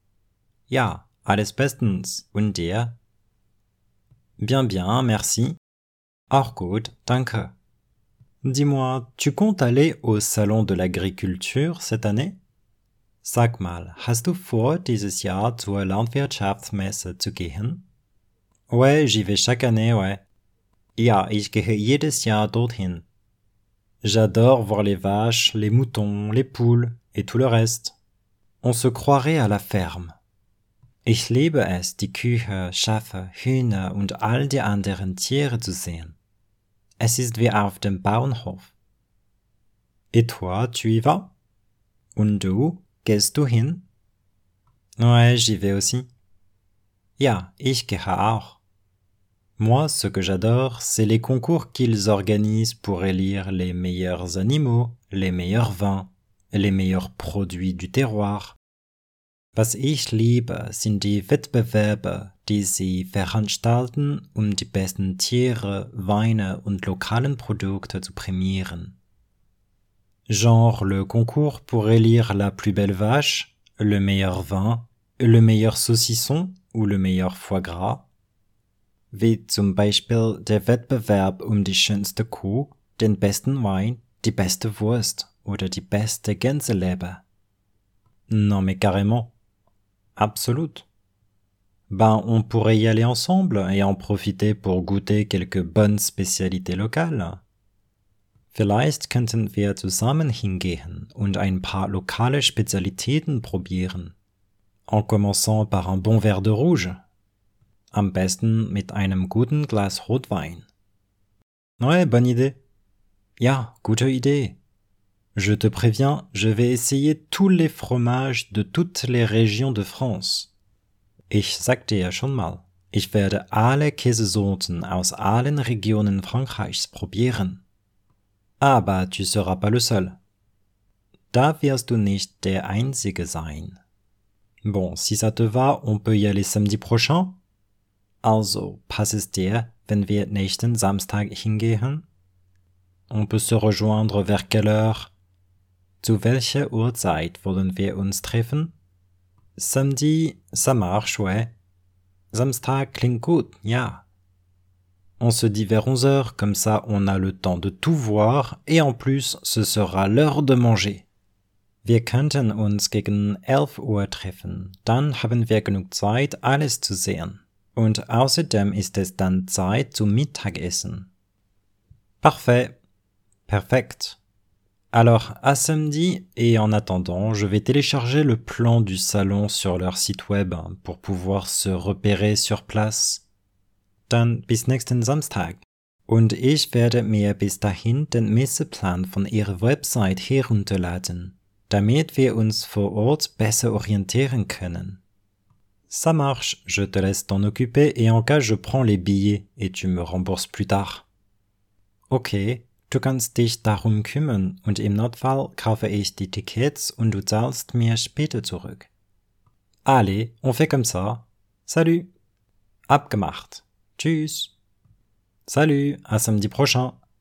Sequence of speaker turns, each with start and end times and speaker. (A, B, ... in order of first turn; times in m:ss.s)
0:00.7-0:02.9 A
0:04.4-0:05.6 A
0:06.3-0:07.5 A
0:08.4-0:12.4 A
0:13.2-0:17.8 A
0:18.7-0:20.2 A
0:21.0-0:23.0 A
0:24.0-0:27.9 A
0:28.6-0:30.1 A
0:31.0-0:36.2 A
0:37.0-0:38.7 A
0:40.1-0:41.3 A
0:42.1-0:43.8 A
0:45.0-0:46.1 A
0:47.2-0:48.6 A
0:49.6-0:58.6 A
0:59.5-1:09.0 A
1:10.3-1:18.0 A
1:19.1-1:27.2 A
1:28.3-1:29.3 A
1:30.2-1:30.8 A
1:31.9-1:37.4 A
1:38.5-1:44.1 A
1:44.9-1:47.0 A
1:47.9-1:50.7 A
1:51.8-1:52.6 A
1:53.4-1:54.6 A
1:55.4-2:00.5 A
2:01.3-2:07.6 A
2:08.6-2:10.2 A
2:11.3-2:13.8 A
2:14.6-2:17.4 A
2:18.2-2:22.0 A
2:23.1-2:25.1 A
2:26.0-2:28.7 A
2:29.6-2:31.5 A
2:32.3-2:34.0 A
2:35.2-2:41.1 A
2:41.8-2:51.1 A
2:52.2-2:52.8 A
2:53.5-2:54.2 A
2:54.9-3:03.2 A
3:04.1-3:15.0 A
3:15.9-3:21.1 A
3:22.1-3:28.9 A
3:29.8-3:32.1 A
3:32.9-3:34.5 A
3:35.5-3:37.0 A